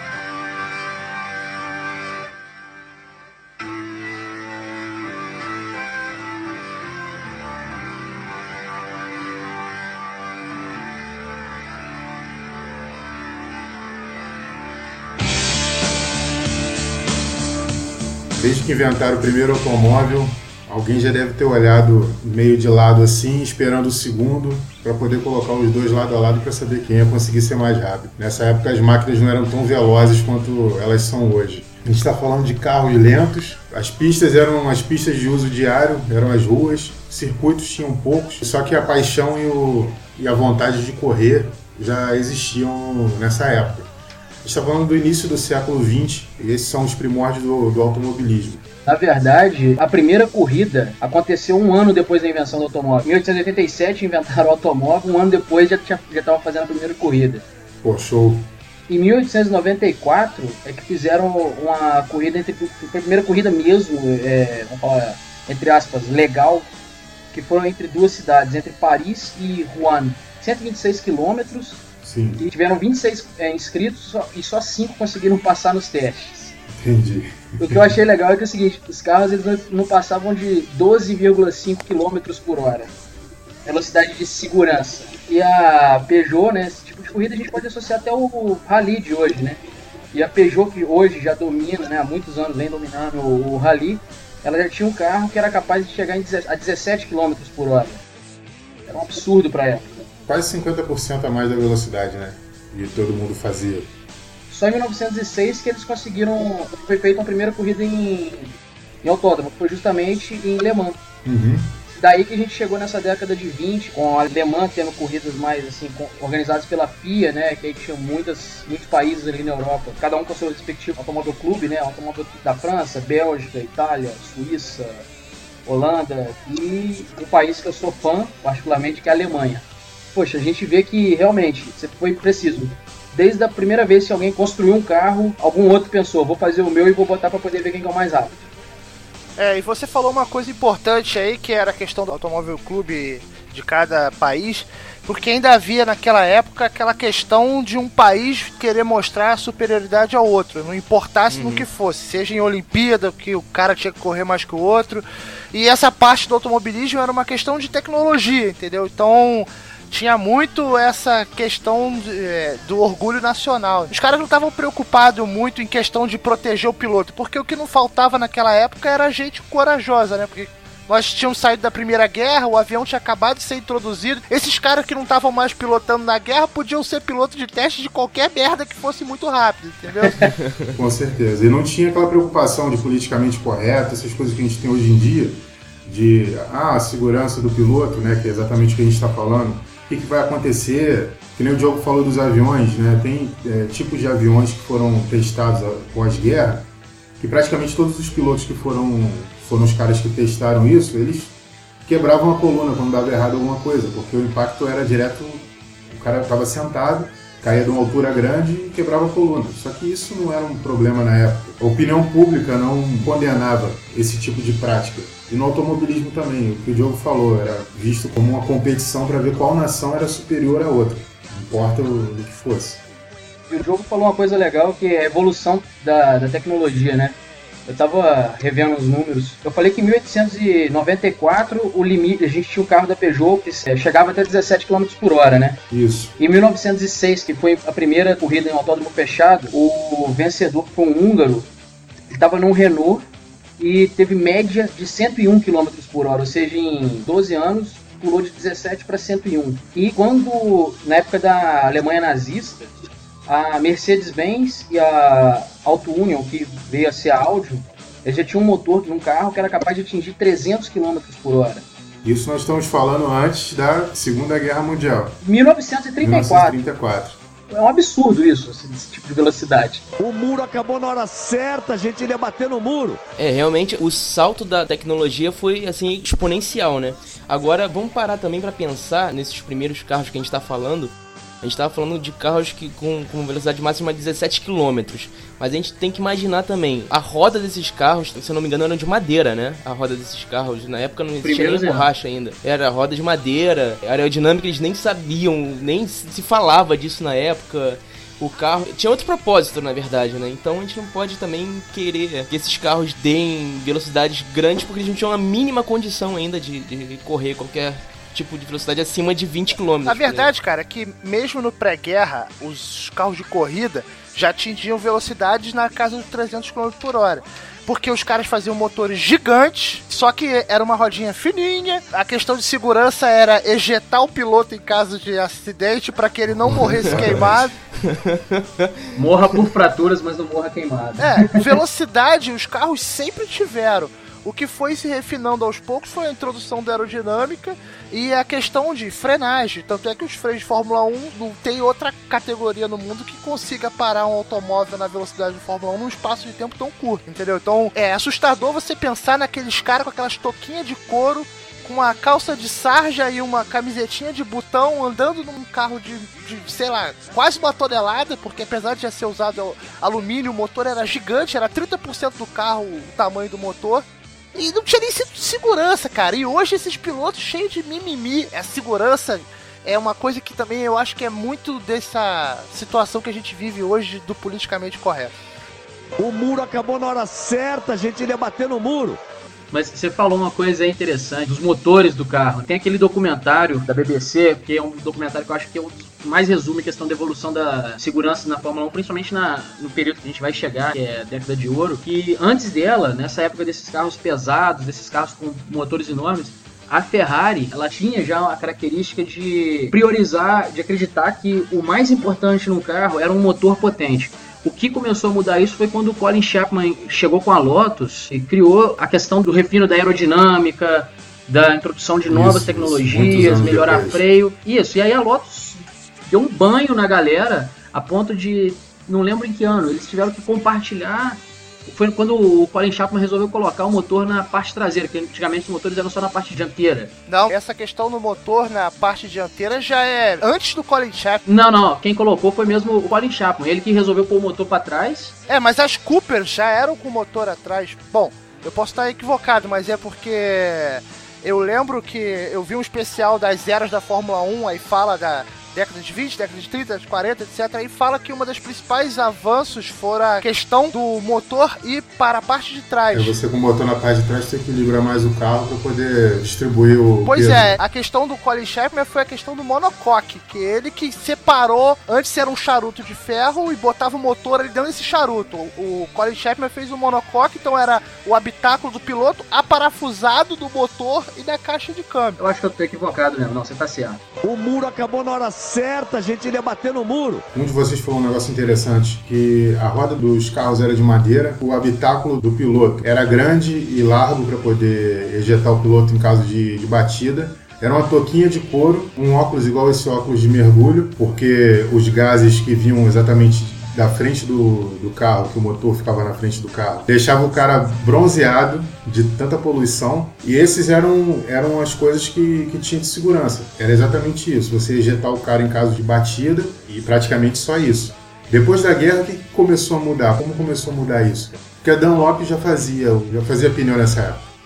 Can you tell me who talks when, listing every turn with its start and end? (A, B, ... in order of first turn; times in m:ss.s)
0:18.3-0:43.9 A
0:44.4-0:48.6 A
0:48.8-0:57.4 B
0:57.8-0:58.5 A
0:58.9-1:06.7 B
1:07.3-1:11.8 B
1:12.0-1:12.4 A
1:12.4-1:16.5 B
1:16.7-1:17.9 A
1:17.6-1:22.9 B
1:23.6-1:29.6 B
1:30.1-1:38.0 B
1:38.9-1:40.0 B
1:40.3-1:43.9 A
1:44.5-1:51.0 B
1:51.2-1:51.7 A
1:52.0-2:05.0 B
2:05.6-2:18.4 B
2:19.4-3:00.3 C
2:31.3-2:31.6 D
3:00.7-3:16.7 A
3:17.2-3:21.3 A
3:21.9-3:42.8 A
3:43.5-3:55.6 B
3:55.7-3:56.1 A
3:56.2-4:01.5 B
4:02.1-4:03.1 B
4:03.6-4:12.8 B
4:13.3-4:21.6 B
4:22.0-4:25.2 A
4:25.2-4:26.6 B
4:26.0-4:27.2 A
4:27.5-4:29.8 B
4:30.0-4:33.0 E
4:33.2-5:10.3 D
4:51.2-4:51.8 B
5:09.8-5:27.6 C
5:26.3-5:27.5 A
5:27.8-5:28.7 D
5:29.0-5:31.4 B
5:31.0-6:15.2 C
6:16.0-6:19.0 E
6:19.5-7:06.9 B
6:52.1-6:54.0 A
7:07.1-7:11.2 C
7:11.2-7:15.2 B
7:15.3-7:33.1 C
7:32.9-7:37.6 A
7:37.0-7:52.2 C
7:52.2-7:54.0 B
7:54.2-7:57.2 E
7:57.3-8:34.2 A